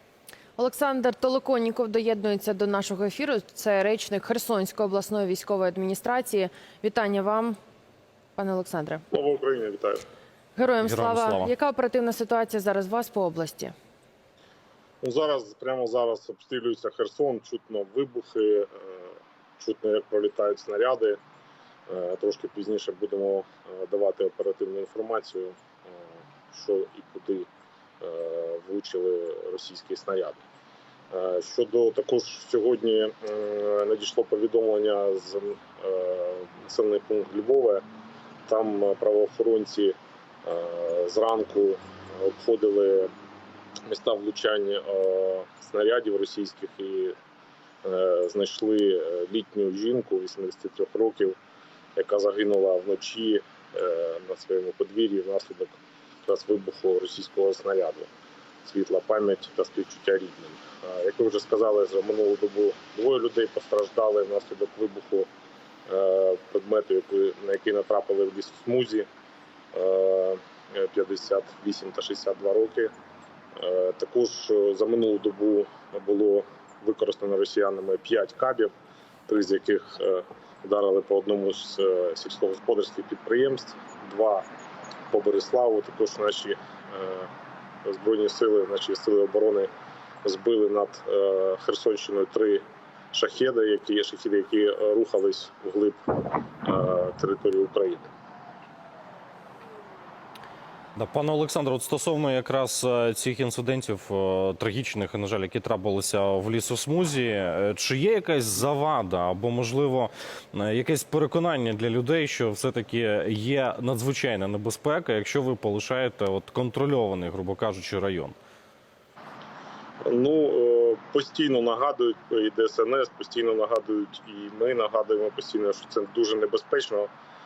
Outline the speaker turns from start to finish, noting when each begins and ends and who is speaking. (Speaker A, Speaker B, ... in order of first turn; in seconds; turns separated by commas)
Speaker A: 0.6-7.6, Speaker A: 8.3-9.0, Speaker B: 9.1-10.0, Speaker A: 10.6-13.7, Speaker C: 10.8-11.5, Speaker B: 15.0-21.2, Speaker B: 21.9-26.0, Speaker B: 26.5-27.5, Speaker B: 28.0-30.4, Speaker B: 31.1-37.8, Speaker B: 38.5-43.1, Speaker B: 43.9-47.1, Speaker B: 47.8-51.4, Speaker B: 52.0-58.1, Speaker B: 58.6-65.3, Speaker B: 65.9-69.1, Speaker B: 69.7-72.9, Speaker B: 73.5-78.7, Speaker B: 79.3-84.4, Speaker B: 85.1-87.3, Speaker B: 87.8-89.7, Speaker B: 90.2-96.0, Speaker B: 96.6-98.1, Speaker C: 101.0-118.3, Speaker B: 120.0-127.1